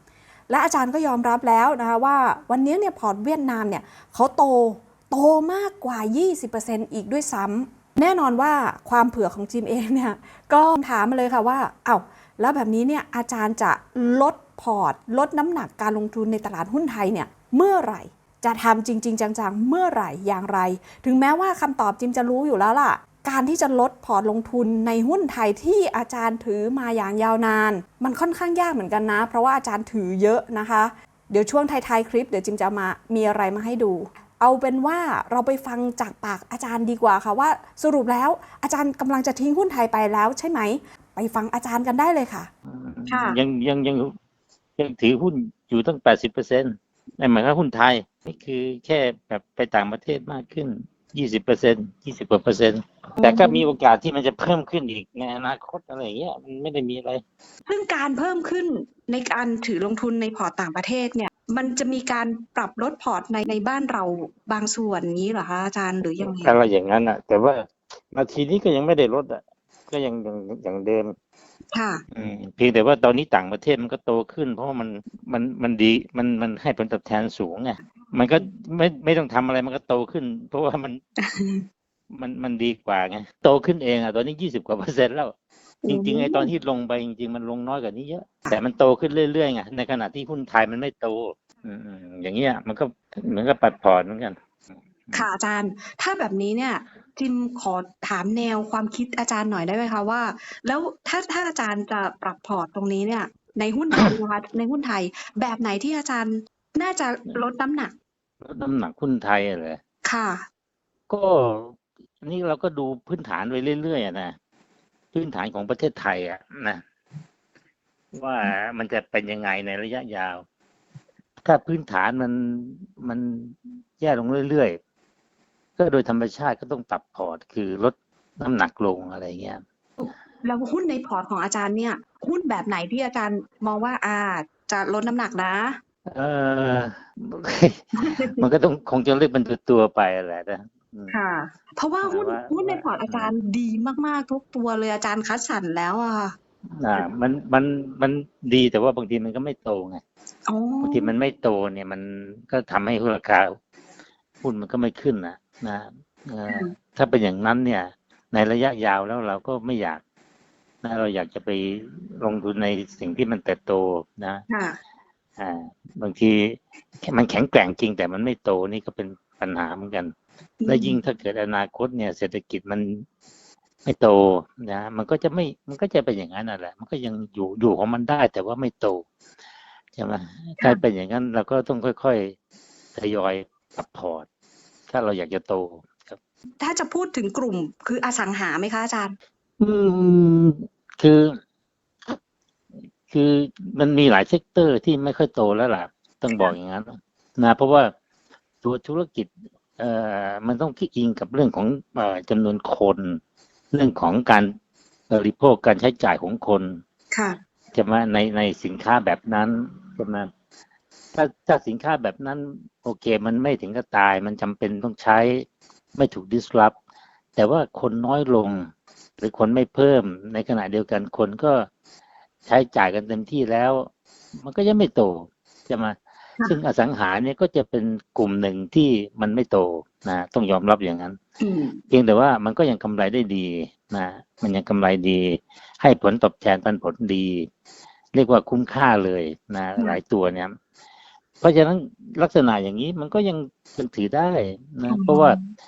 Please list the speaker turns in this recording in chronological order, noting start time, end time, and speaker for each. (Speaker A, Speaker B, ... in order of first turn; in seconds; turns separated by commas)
Speaker A: 0.5-42.5, Speaker B: 42.7-44.1, Speaker C: 43.1-43.4, Speaker B: 44.8-57.2, Speaker C: 53.2-53.6, Speaker C: 57.7-66.6, Speaker B: 66.2-71.1, Speaker C: 71.7-72.0, Speaker B: 72.1-81.0, Speaker C: 81.2-81.7, Speaker B: 82.1-85.3, Speaker C: 85.8-86.5, Speaker B: 85.9-94.4, Speaker C: 95.1-107.9, Speaker B: 108.4-109.8, Speaker C: 110.0-110.4, Speaker B: 111.1-114.3, Speaker B: 115.1-116.8, Speaker B: 118.1-120.4, Speaker B: 121.4-124.8, Speaker B: 125.8-129.6, Speaker C: 130.0-135.8, Speaker B: 136.1-141.2, Speaker C: 138.0-138.4, Speaker C: 141.1-146.3, Speaker B: 142.0-143.3, Speaker B: 146.8-150.0, Speaker C: 150.5-151.1, Speaker B: 150.8-153.5, Speaker B: 154.4-160.0, Speaker C: 156.5-156.7, Speaker B: 160.8-164.4, Speaker C: 164.5-164.8, Speaker B: 165.4-170.1, Speaker C: 170.6-171.0, Speaker B: 170.7-173.1, Speaker B: 173.8-179.0, Speaker B: 179.9-182.4, Speaker B: 182.9-184.3, Speaker B: 184.9-186.2, Speaker C: 186.6-189.2, Speaker B: 189.6-191.4, Speaker B: 193.1-197.9, Speaker B: 198.6-203.2, Speaker B: 203.7-204.5, Speaker B: 205.1-206.8, Speaker C: 207.1-207.4, Speaker B: 207.7-210.3, Speaker B: 211.1-215.5, Speaker B: 216.0-216.8, Speaker B: 217.4-221.7, Speaker B: 222.4-223.9, Speaker B: 224.4-231.2, Speaker C: 231.4-231.8, Speaker B: 231.9-237.5, Speaker B: 238.1-240.5, Speaker B: 241.4-245.4, Speaker C: 244.9-245.5